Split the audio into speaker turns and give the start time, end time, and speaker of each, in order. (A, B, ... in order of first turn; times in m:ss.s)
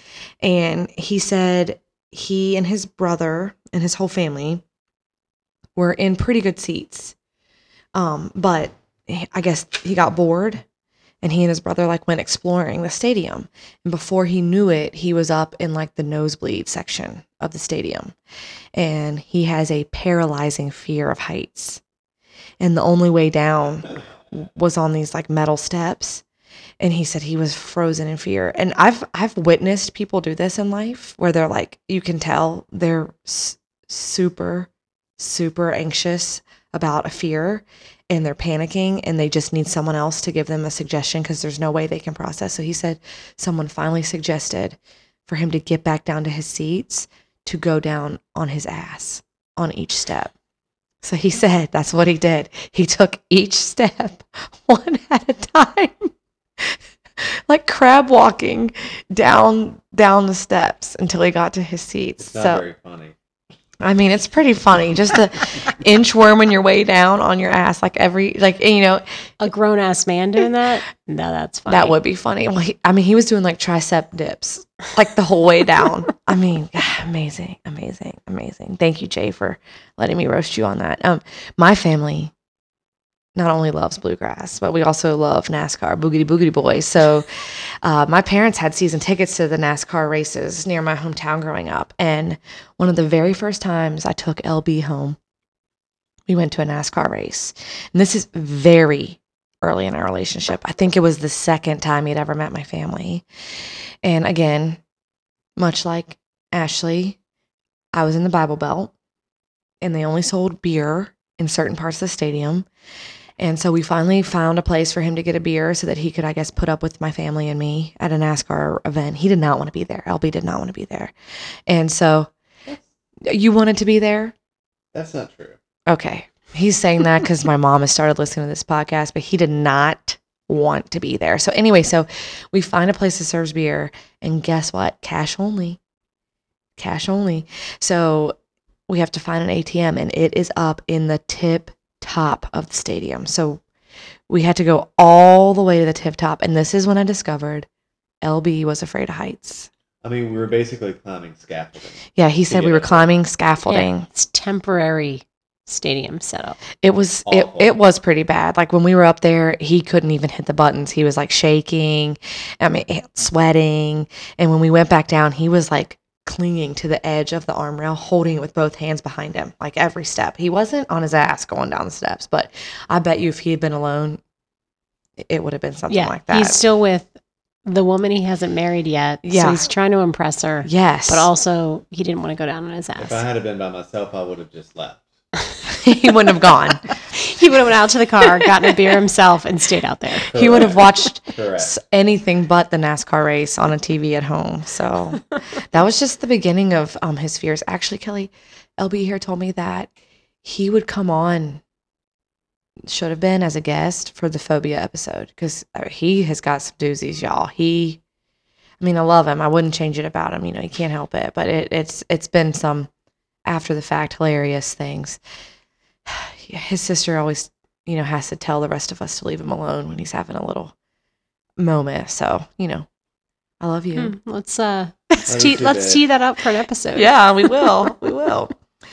0:00.4-0:04.6 A
0:05.8-0:07.1 A
0:07.9-0:10.6 A
0:11.2-0:18.2 A
0:18.7-0:21.8 A
0:22.6-0:26.2 A
0:26.8-0:50.3 A
0:51.0-1:02.6 A
1:02.2-1:03.1 B
1:03.8-1:09.0 A
1:09.4-1:12.0 C
1:11.7-1:22.3 A
1:23.3-1:35.2 A
1:36.3-1:43.2 A
1:44.0-1:44.8 A
1:45.6-1:47.2 A
1:47.9-1:48.9 A
1:49.8-1:52.6 A
1:53.4-2:01.1 A
2:01.7-2:02.3 A
2:03.2-2:04.3 A
2:04.9-2:05.6 B
2:05.9-2:15.8 A
2:16.8-2:18.4 A
2:18.9-2:23.6 A
2:24.3-2:27.7 A
2:28.2-2:29.7 A
2:30.0-2:33.1 B
2:32.2-2:34.0 A
2:33.7-2:36.6 C
2:36.8-2:54.2 A
2:37.2-2:37.7 B
2:55.2-2:56.6 A
2:55.9-2:57.1 C
2:57.6-3:03.2 C
2:59.2-2:59.6 A
3:00.6-3:01.3 A
3:03.0-3:05.1 B
3:05.8-3:06.9 A
3:07.1-3:10.3 C
3:10.3-3:11.7 B
3:10.3-3:19.9 A
3:20.4-3:21.6 A
3:22.9-3:28.0 A
3:28.8-3:32.9 A
3:33.4-3:35.2 A
3:36.0-3:40.7 A
3:41.6-3:42.9 A
3:43.6-3:44.1 A
3:43.9-3:47.6 C
3:45.3-3:46.0 B
3:46.9-3:48.5 A